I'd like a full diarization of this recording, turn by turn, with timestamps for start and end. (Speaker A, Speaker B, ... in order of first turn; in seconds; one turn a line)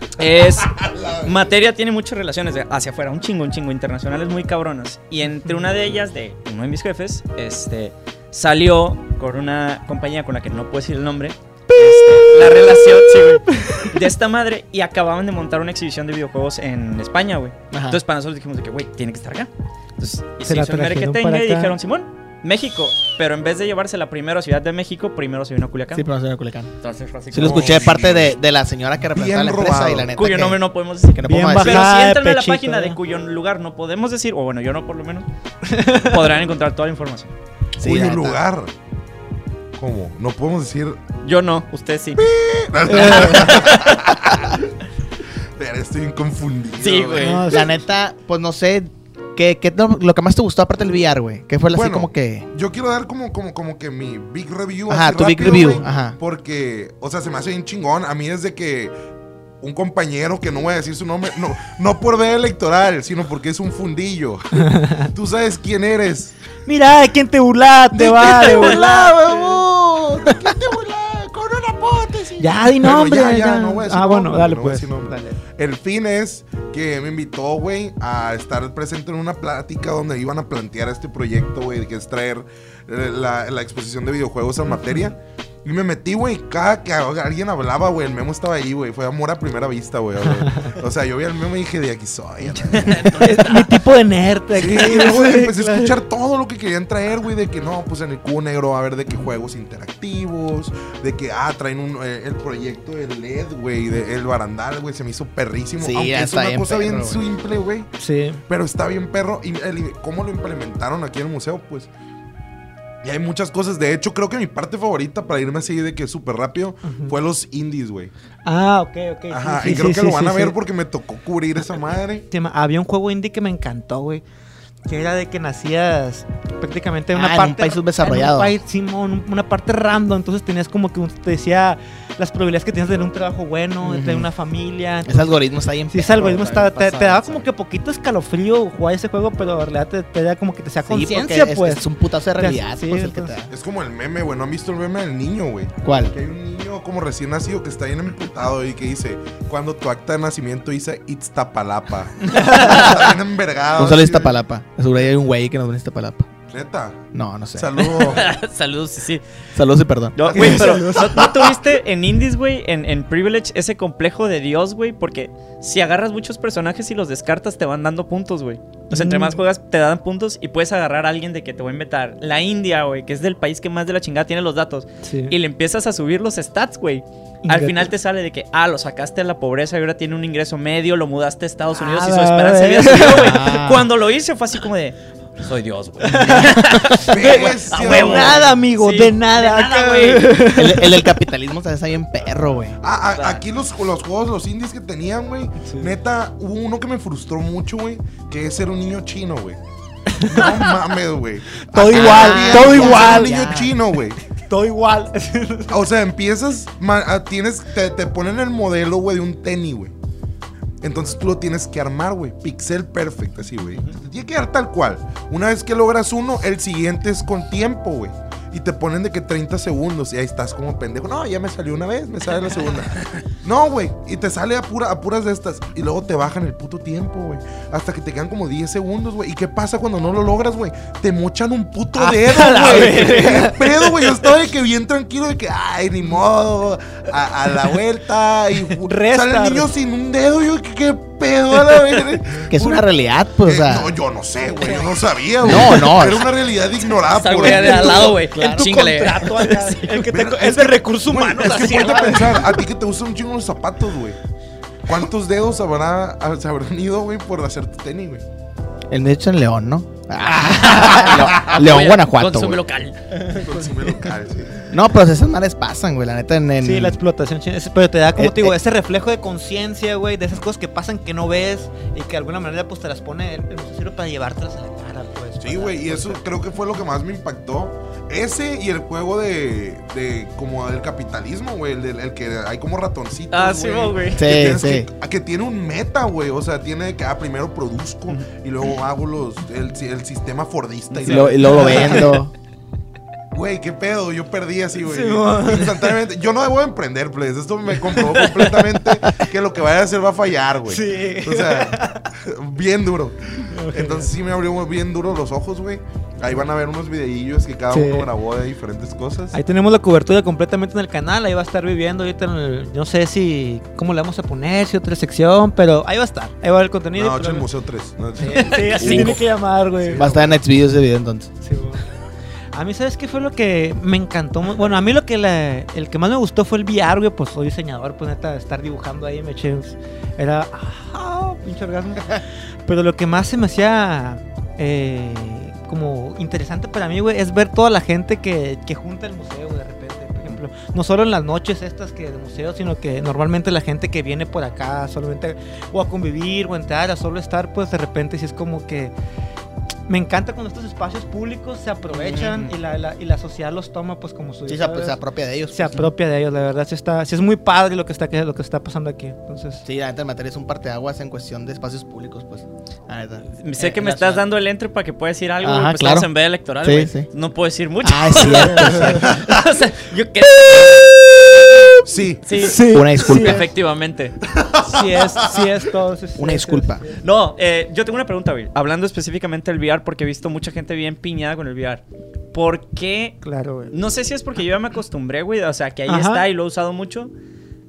Speaker A: 0.2-26.1
Speaker B: 0.8-1.3
Speaker C: 12.2-12.6
Speaker D: 17.7-18.0
Speaker C: 20.4-21.8
Speaker D: 25.9-26.7
Speaker A: 26.8-28.0
Speaker D: 27.3-31.9
Speaker B: 27.3-28.3
Speaker B: 29.1-30.1
Speaker A: 30.1-35.2
Speaker C: 31.2-33.0
Speaker C: 35.7-36.2
Speaker A: 35.8-37.3
Speaker D: 37.8-38.4
Speaker B: 37.8-38.7
Speaker B: 39.8-41.0
Speaker A: 41.2-42.2
Speaker B: 42.2-44.7
Speaker A: 42.9-44.4
Speaker C: 42.9-43.6
Speaker B: 45.6-47.4
Speaker A: 46.8-47.6
Speaker C: 47.2-47.7
Speaker D: 47.5-52.5
Speaker B: 51.7-58.9
Speaker D: 54.9-56.2
Speaker C: 55.5-55.8
Speaker B: 59.6-66.3
Speaker C: 64.6-65.1
Speaker C: 66.7-69.6
Speaker B: 67.9-93.3
Speaker C: 72.4-75.4
Speaker C: 84.7-85.1
Speaker C: 90.4-90.8
Speaker A: 92.5-93.8
Speaker C: 93.1-95.9
Speaker B: 94.5-107.9
Speaker D: 105.8-107.2
Speaker C: 108.0-108.4
Speaker B: 108.5-111.9
Speaker B: 113.0-118.1
Speaker C: 116.8-117.1
Speaker C: 118.4-120.5
Speaker B: 119.3-122.2
Speaker C: 122.3-124.2
Speaker C: 124.9-141.8
Speaker D: 127.1-128.5
Speaker D: 133.8-134.3
Speaker D: 135.0-137.4
Speaker D: 140.8-143.5
Speaker C: 142.4-143.3
Speaker B: 143.5-154.3
Speaker D: 145.8-146.1
Speaker C: 152.3-152.9
Speaker D: 152.4-153.0
Speaker D: 153.8-156.3
Speaker B: 156.5-158.2
Speaker D: 157.1-158.1
Speaker A: 158.0-159.2
Speaker D: 159.5-160.7
Speaker A: 160.1-190.6
Speaker B: 160.3-161.2
Speaker C: 160.3-161.4
Speaker C: 168.9-169.4
Speaker C: 175.0-175.3
Speaker C: 177.4-177.9
Speaker C: 181.7-183.5
Speaker D: 183.0-183.9
Speaker C: 186.0-191.2
Speaker B: 187.0-188.5
Speaker D: 190.4-192.8
Speaker B: 192.8-199.6
Speaker A: 193.1-193.4
Speaker C: 200.1-200.7
Speaker B: 200.2-204.2
Speaker C: 201.7-203.3
Speaker D: 201.9-203.7
Speaker C: 204.4-205.7
Speaker B: 205.7-209.9
Speaker B: 210.8-242.9
Speaker C: 231.9-234.3
Speaker C: 238.8-239.7
Speaker D: 242.5-243.9
Speaker B: 243.4-248.2
Speaker D: 245.4-246.3
Speaker A: 247.1-250.1
Speaker C: 247.4-252.6
Speaker B: 250.1-254.2
Speaker B: 254.8-258.2
Speaker D: 258.9-262.6
Speaker A: 260.3-263.0
Speaker B: 263.3-264.7
Speaker C: 263.3-263.8
Speaker D: 264.7-267.0
Speaker C: 266.6-276.2
Speaker D: 268.1-268.6
Speaker B: 275.4-292.1
Speaker A: 283.3-284.2
Speaker D: 284.1-284.9
Speaker D: 291.0-292.3
Speaker C: 291.1-292.2
Speaker B: 293.3-309.4
Speaker C: 294.8-295.9
Speaker C: 300.7-302.1
Speaker C: 303.5-304.1
Speaker C: 307.7-308.1
Speaker C: 309.3-317.5
Speaker B: 316.9-319.2
Speaker C: 318.2-320.3
Speaker A: 318.3-319.2
Speaker B: 319.8-320.4
Speaker D: 319.9-321.3
Speaker C: 321.4-321.8
Speaker C: 322.5-348.9
Speaker C: 349.9-355.0
Speaker D: 351.9-352.5
Speaker D: 354.5-355.9
Speaker C: 355.5-359.6
Speaker D: 359.6-364.2
Speaker A: 363.4-370.9
Speaker D: 365.4-366.1
Speaker D: 366.6-367.1
Speaker D: 367.8-369.2
Speaker C: 368.6-369.0
Speaker B: 371.8-372.3
Speaker A: 372.2-374.2
Speaker C: 372.4-373.5
Speaker D: 372.4-373.5
Speaker B: 374.3-375.5
Speaker C: 374.6-377.0
Speaker D: 376.1-376.8
Speaker A: 377.0-387.1
Speaker C: 383.2-383.7
Speaker C: 385.9-386.2